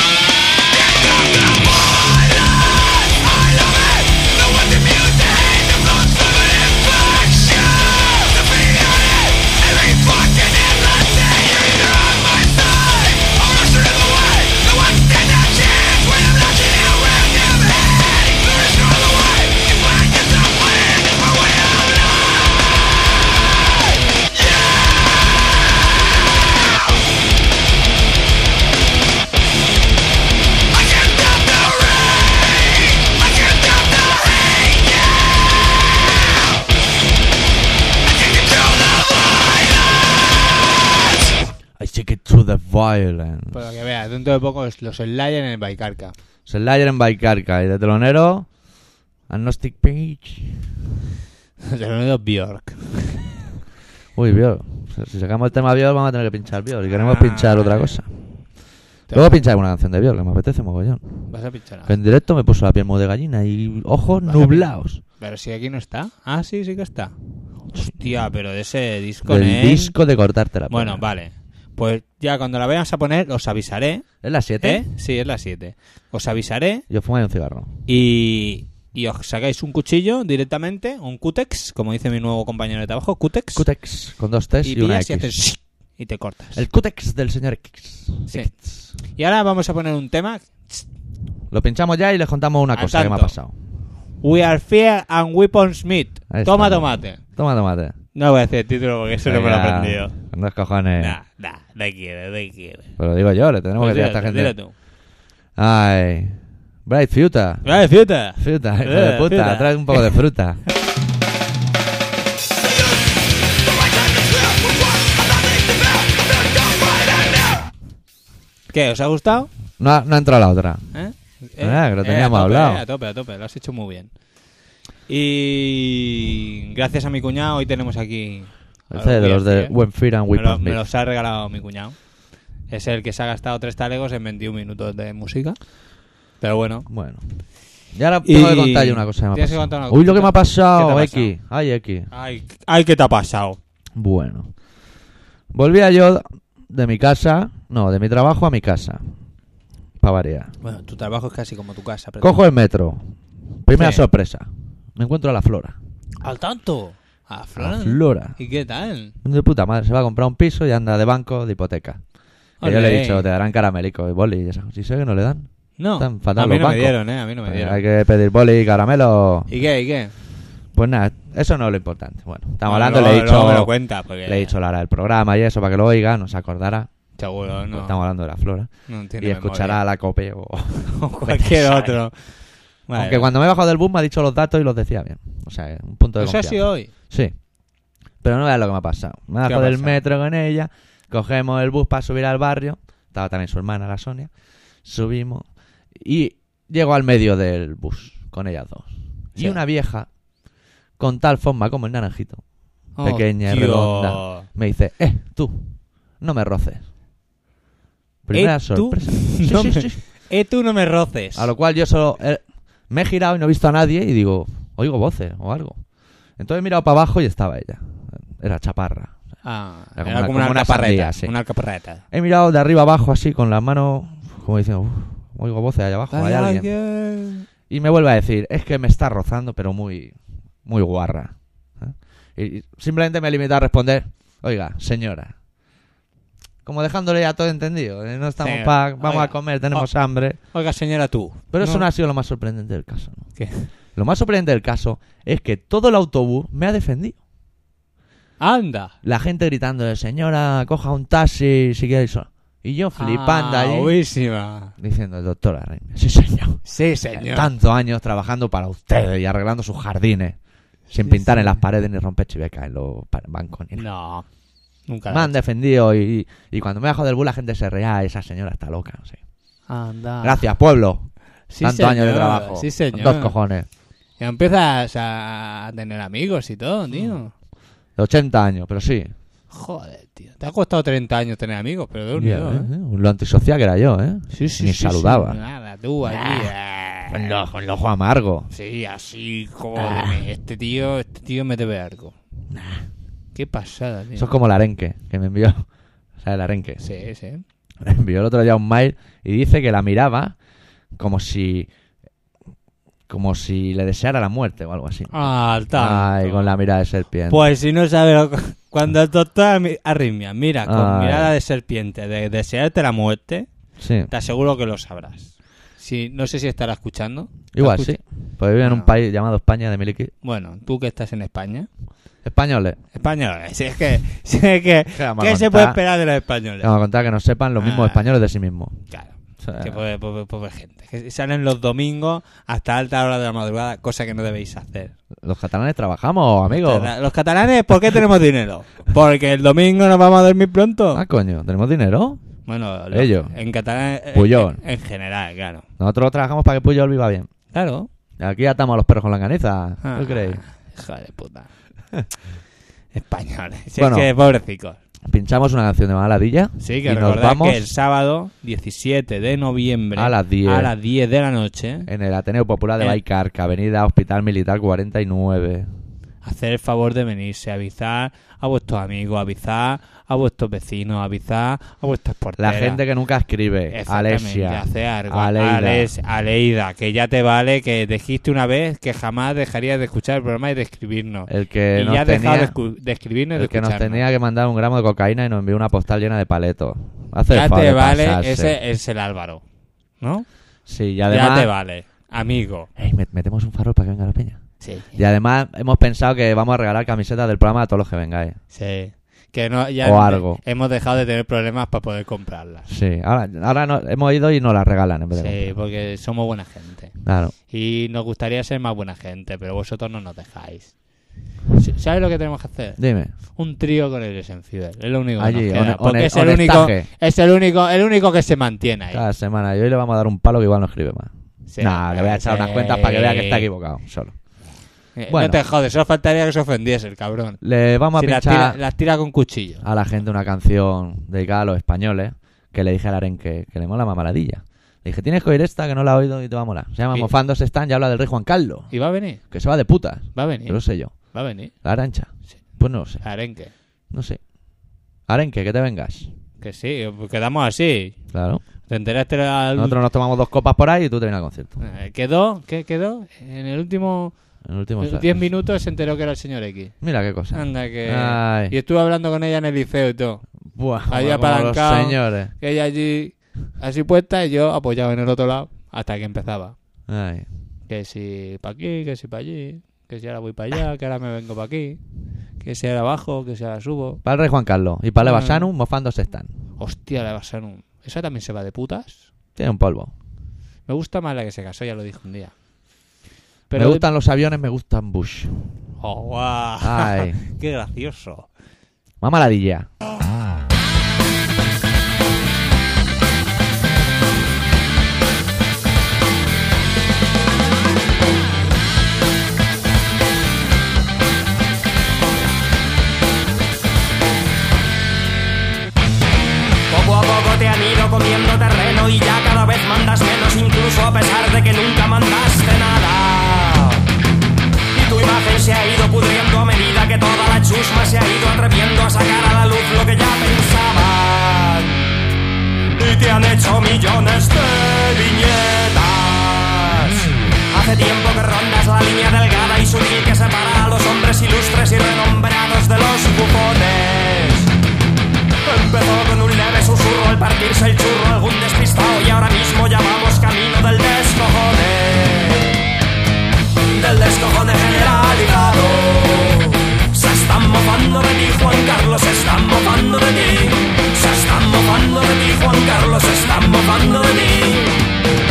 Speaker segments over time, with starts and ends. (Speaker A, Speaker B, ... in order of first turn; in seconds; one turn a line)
Speaker A: 0.7-22.8
Speaker A: 24.3-25.1
Speaker A: 30.7-35.5
Speaker A: 38.0-40.2
Speaker B: 41.8-43.6
Speaker C: 43.5-46.1
Speaker B: 46.5-48.5
Speaker B: 49.3-50.6
Speaker C: 51.6-53.3
Speaker B: 54.1-58.1
Speaker C: 56.9-58.0
Speaker C: 59.1-59.4
Speaker B: 59.1-61.0
Speaker C: 61.3-62.0
Speaker B: 61.9-65.0
Speaker C: 64.2-67.1
Speaker C: 67.8-69.9
Speaker B: 69.2-71.0
Speaker C: 70.7-74.1
Speaker B: 74.2-74.8
Speaker C: 74.6-76.8
Speaker B: 76.9-77.7
Speaker C: 77.9-83.7
Speaker B: 83.5-85.3
Speaker C: 84.6-86.6
Speaker B: 86.5-88.8
Speaker C: 89.2-90.8
Speaker B: 91.5-93.5
Speaker C: 92.7-93.3
Speaker C: 94.2-97.2
Speaker B: 96.3-97.9
Speaker C: 98.1-100.1
Speaker B: 99.2-101.2
Speaker C: 101.0-102.9
Speaker B: 103.0-104.5
Speaker C: 103.8-104.7
Speaker B: 105.6-107.7
Speaker C: 107.6-110.2
Speaker B: 108.4-110.6
Speaker A: 113.7-117.7
Speaker C: 118.7-119.5
Speaker B: 119.8-120.9
Speaker C: 120.9-124.1
Speaker B: 121.6-122.8
Speaker C: 125.1-129.7
Speaker B: 128.9-130.8
Speaker C: 130.3-131.9
Speaker C: 132.7-135.6
Speaker C: 136.4-136.9
Speaker B: 136.9-137.2
Speaker B: 137.9-142.1
Speaker C: 138.2-141.3
Speaker C: 142.1-143.6
Speaker B: 143.9-144.5
Speaker B: 145.5-149.0
Speaker B: 150.0-150.5
Speaker C: 150.6-152.4
Speaker B: 152.2-153.0
Speaker B: 153.6-155.8
Speaker C: 153.7-154.0
Speaker C: 156.2-159.1
Speaker B: 157.6-158.3
Speaker B: 159.2-162.0
Speaker C: 162.6-163.2
Speaker B: 162.6-169.5
Speaker C: 165.8-167.8
Speaker C: 169.5-170.1
Speaker B: 170.7-173.7
Speaker C: 172.6-174.5
Speaker B: 174.2-176.9
Speaker C: 177.2-178.0
Speaker B: 177.7-182.0
Speaker C: 178.9-179.8
Speaker C: 180.9-182.2
Speaker C: 182.9-183.3
Speaker B: 182.9-187.3
Speaker C: 186.2-186.9
Speaker B: 188.2-194.3
Speaker C: 189.4-190.0
Speaker B: 194.8-200.1
Speaker B: 201.0-202.4
Speaker C: 202.9-204.5
Speaker B: 203.0-206.8
Speaker B: 208.2-210.0
Speaker C: 208.3-211.5
Speaker B: 211.3-215.8
Speaker B: 216.4-219.1
Speaker C: 219.4-222.0
Speaker B: 220.0-221.3
Speaker B: 222.1-226.7
Speaker C: 226.1-227.4
Speaker B: 227.7-235.3
Speaker B: 236.6-240.4
Speaker C: 238.4-239.9
Speaker C: 240.5-241.9
Speaker B: 241.5-243.2
Speaker C: 243.4-243.7
Speaker B: 243.9-247.2
Speaker C: 248.4-248.9
Speaker B: 249.0-253.9
Speaker C: 253.0-254.7
Speaker B: 254.8-260.4
Speaker C: 256.6-257.5
Speaker C: 260.9-261.6
Speaker B: 260.9-263.8
Speaker C: 263.8-264.2
Speaker C: 264.9-265.3
Speaker B: 265.1-269.2
Speaker C: 269.7-270.4
Speaker B: 270.2-271.1
Speaker C: 271.5-273.3
Speaker B: 271.6-273.7
Speaker C: 274.2-277.3
Speaker B: 278.0-279.1
Speaker C: 279.5-282.7
Speaker B: 282.1-285.4
Speaker C: 284.3-287.4
Speaker B: 286.1-286.5
Speaker B: 287.1-288.5
Speaker C: 288.5-292.1
Speaker B: 289.8-290.2
Speaker B: 292.5-292.8
Speaker C: 293.3-294.3
Speaker B: 294.1-295.6
Speaker B: 296.2-296.8
Speaker C: 296.8-297.4
Speaker B: 297.8-300.4
Speaker B: 300.9-301.7
Speaker B: 303.1-305.1
Speaker C: 305.1-306.5
Speaker B: 305.7-307.4
Speaker C: 307.3-313.5
Speaker B: 310.6-311.3
Speaker B: 313.8-314.1
Speaker C: 314.1-318.0
Speaker B: 317.5-320.1
Speaker C: 318.6-318.9
Speaker C: 320.2-321.7
Speaker B: 322.2-322.8
Speaker C: 322.9-326.7
Speaker B: 324.9-325.8
Speaker B: 326.6-328.8
Speaker C: 327.6-328.0
Speaker C: 328.9-334.9
Speaker B: 329.4-329.8
Speaker B: 335.2-336.9
Speaker C: 336.5-341.0
Speaker B: 340.9-342.2
Speaker C: 342.5-345.6
Speaker B: 342.9-343.3
Speaker B: 344.1-344.6
Speaker B: 345.8-347.3
Speaker C: 347.5-347.9
Speaker B: 348.2-350.4
Speaker C: 349.8-351.5
Speaker C: 352.9-354.8
Speaker B: 353.8-354.1
Speaker B: 355.1-357.6
Speaker C: 356.6-361.9
Speaker B: 359.9-360.7
Speaker B: 361.9-365.7
Speaker C: 366.2-372.8
Speaker B: 372.4-375.9
Speaker C: 373.7-384.1
Speaker B: 381.3-382.5
Speaker B: 383.4-388.6
Speaker C: 387.3-389.4
Speaker C: 390.0-390.2
Speaker B: 390.7-391.5
Speaker C: 391.1-392.7
Speaker B: 392.8-394.4
Speaker C: 394.6-394.9
Speaker B: 394.9-398.4
Speaker C: 398.5-402.7
Speaker B: 399.8-400.4
Speaker B: 402.7-405.6
Speaker C: 405.1-406.9
Speaker B: 407.0-407.3
Speaker C: 407.5-410.7
Speaker C: 411.5-412.8
Speaker B: 412.8-413.1
Speaker C: 413.3-419.0
Speaker B: 415.2-416.9
Speaker B: 418.9-424.1
Speaker C: 421.5-423.4
Speaker C: 424.9-427.4
Speaker B: 425.1-425.4
Speaker B: 427.4-428.6
Speaker C: 427.9-429.6
Speaker B: 429.6-438.7
Speaker C: 438.7-439.2
Speaker B: 439.3-440.9
Speaker C: 440.1-441.5
Speaker B: 441.6-443.0
Speaker C: 443.0-443.5
Speaker B: 443.9-444.2
Speaker B: 445.1-446.1
Speaker C: 446.4-447.9
Speaker B: 448.1-448.4
Speaker C: 448.7-449.8
Speaker B: 449.6-451.6
Speaker C: 451.6-454.1
Speaker B: 454.4-455.2
Speaker C: 454.8-456.7
Speaker B: 456.8-458.5
Speaker C: 457.3-460.2
Speaker B: 460.5-462.3
Speaker C: 460.9-466.5
Speaker B: 466.9-467.3
Speaker C: 467.7-471.8
Speaker C: 472.4-474.0
Speaker B: 474.0-476.3
Speaker C: 475.0-475.5
Speaker C: 476.6-479.0
Speaker B: 479.4-479.9
Speaker C: 480.7-482.3
Speaker C: 483.5-483.9
Speaker B: 483.5-485.4
Speaker C: 485.8-488.3
Speaker B: 486.6-487.2
Speaker B: 489.0-489.7
Speaker D: 506.7-513.8
Speaker D: 514.7-521.9
Speaker D: 522.8-534.5
Speaker D: 535.4-542.6
Speaker D: 543.7-554.8